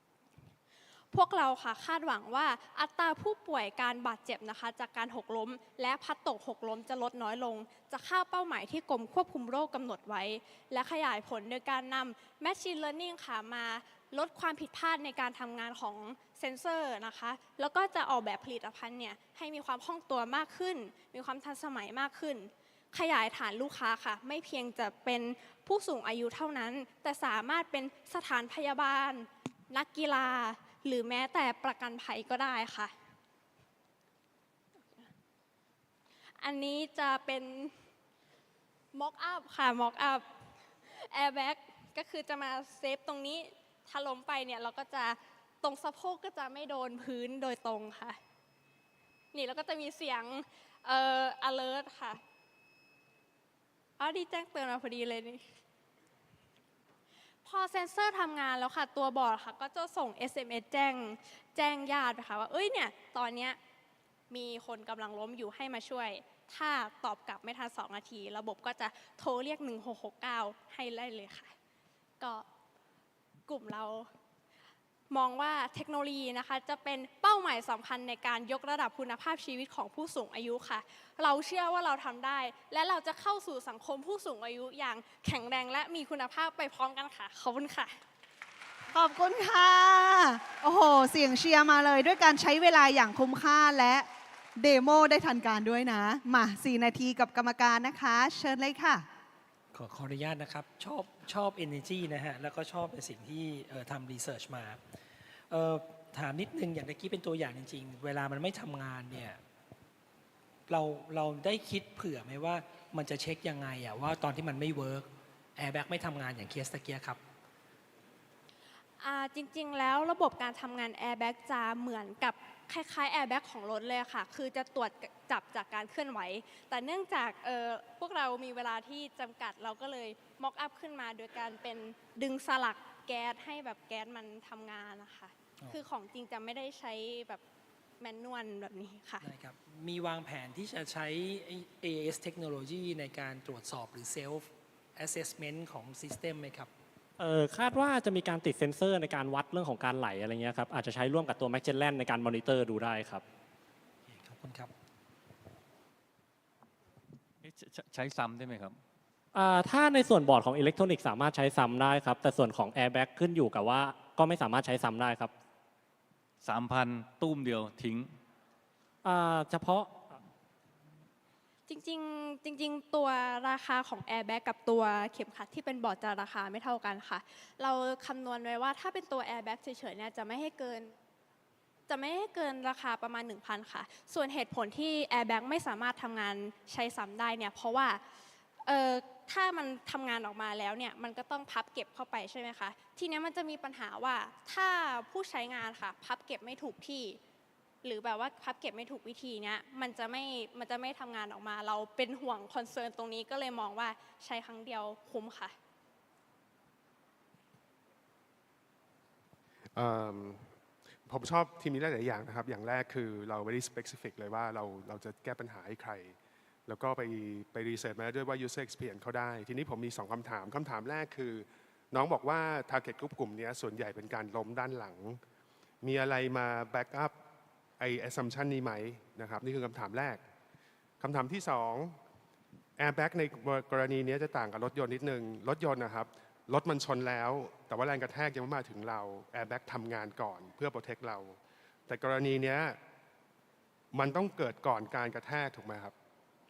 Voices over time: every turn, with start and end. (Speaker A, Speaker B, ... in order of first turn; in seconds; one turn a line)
Speaker A: 1.1-32.9
Speaker A: 36.4-37.7
Speaker A: 38.9-40.2
Speaker A: 40.9-48.2
Speaker A: 49.3-52.2
Speaker A: 54.0-55.4
Speaker A: 57.4-63.6
Speaker A: 64.3-71.5
Speaker A: 72.2-72.4
Speaker A: 73.5-74.1
Speaker A: 75.1-88.0
Speaker B: 88.9-94.0
Speaker B: 94.6-99.0
Speaker C: 99.7-104.8
Speaker C: 105.5-109.4
Speaker C: 110.7-117.2
Speaker A: 119.0-137.4
Speaker A: 138.0-139.3
Speaker C: 139.2-146.7
Speaker D: 147.2-153.2
Speaker C: 154.1-154.7
Speaker E: 157.4-158.8
Speaker D: 159.3-165.3
Speaker E: 166.4-168.2
Speaker D: 169.0-170.1
Speaker A: 171.7-180.9
Speaker A: 181.9-188.0
Speaker A: 188.7-197.2
Speaker A: 197.8-205.5
Speaker F: 209.7-210.5
Speaker F: 211.1-225.2
Speaker F: 225.8-227.1
Speaker F: 227.8-230.2
Speaker F: 231.0-231.9
Speaker F: 232.8-242.8
Speaker F: 243.9-245.9